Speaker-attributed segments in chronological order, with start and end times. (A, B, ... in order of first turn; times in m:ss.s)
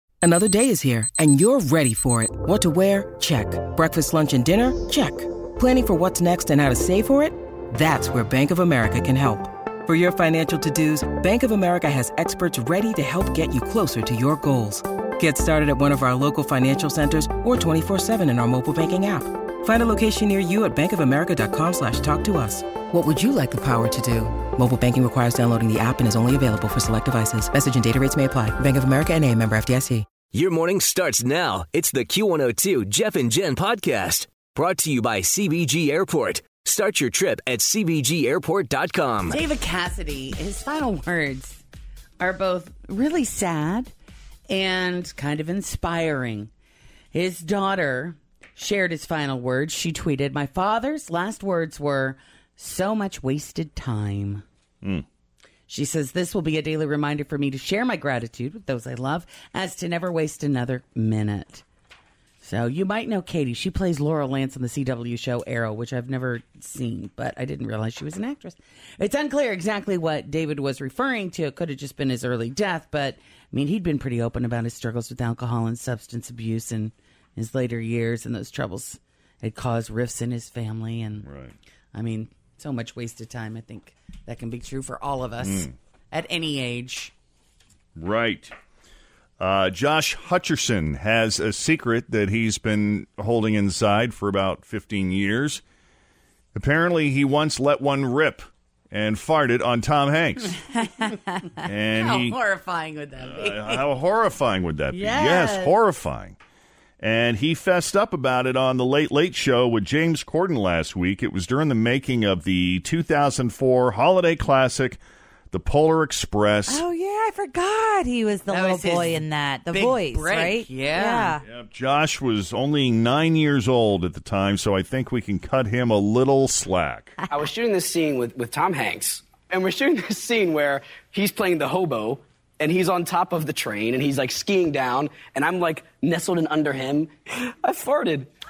0:00.2-0:30.1 A
0:30.3-0:39.4 B
0:39.2-0:41.6 C
0:42.2-0:43.9 C
0:44.5-0:46.5 C
0:47.1-0:54.4 C
0:55.7-1:01.6 C
1:02.4-1:21.2 C
1:21.2-1:21.5 D
1:21.9-1:27.1 C
1:25.4-1:25.7 D
1:28.0-1:28.5 D
1:29.4-1:35.6 D
1:36.5-1:40.6 D
1:40.8-1:41.2 C
1:41.6-1:42.4 D
1:41.9-1:43.8 C
1:43.2-1:46.4 D
1:44.9-1:45.7 C
1:47.0-1:55.0 D
1:55.5-1:56.8 D
1:56.7-2:01.4 E
1:58.5-2:01.4 C
2:01.4-2:07.1 D
2:07.3-2:18.3 F